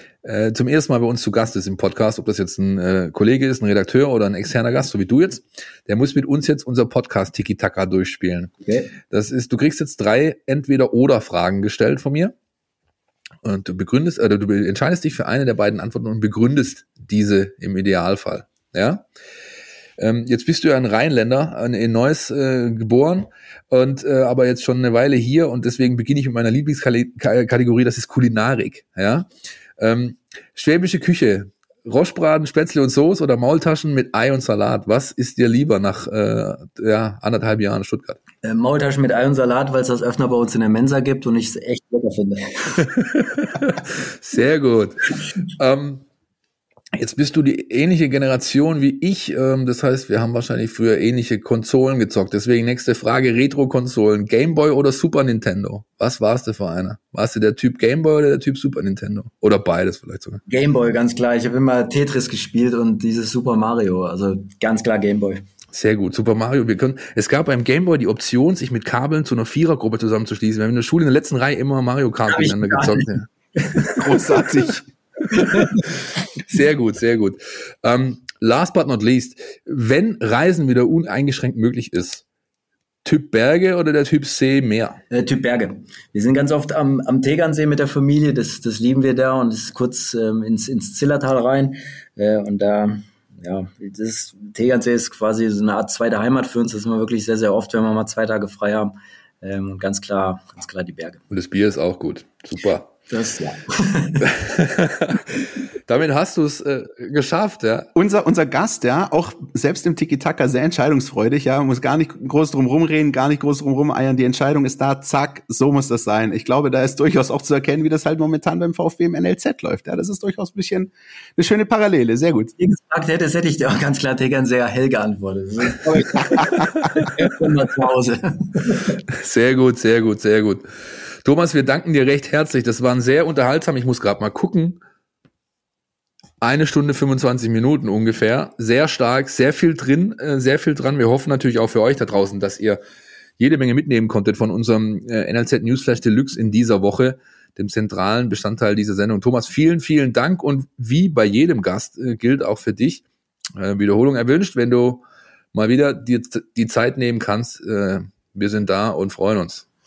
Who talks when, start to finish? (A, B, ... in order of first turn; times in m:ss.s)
0:00.2-0:08.5 A
0:08.6-0:08.9 B
0:09.1-0:12.3 A
0:13.4-0:19.0 A
0:20.0-0:38.2 A
0:38.4-0:43.0 B
0:43.1-0:46.0 A
0:46.9-1:00.4 A
1:00.5-1:05.4 B
1:05.7-1:14.4 A
1:12.3-1:14.5 B
1:14.0-1:14.8 C
1:15.3-1:15.8 B
1:15.3-1:15.8 A
1:16.4-1:22.2 A
1:23.0-1:25.0 A
1:25.1-1:41.2 B
1:41.3-1:42.9 A
1:43.1-1:44.2 B
1:44.2-1:45.3 A
1:45.9-1:47.9 A
1:47.9-2:02.5 C
2:02.6-2:09.0 B
2:09.1-2:10.6 A
2:11.2-2:14.8 A
2:16.4-2:22.8 A
2:23.4-2:33.0 A
2:33.6-2:35.0 A
2:35.5-2:39.6 A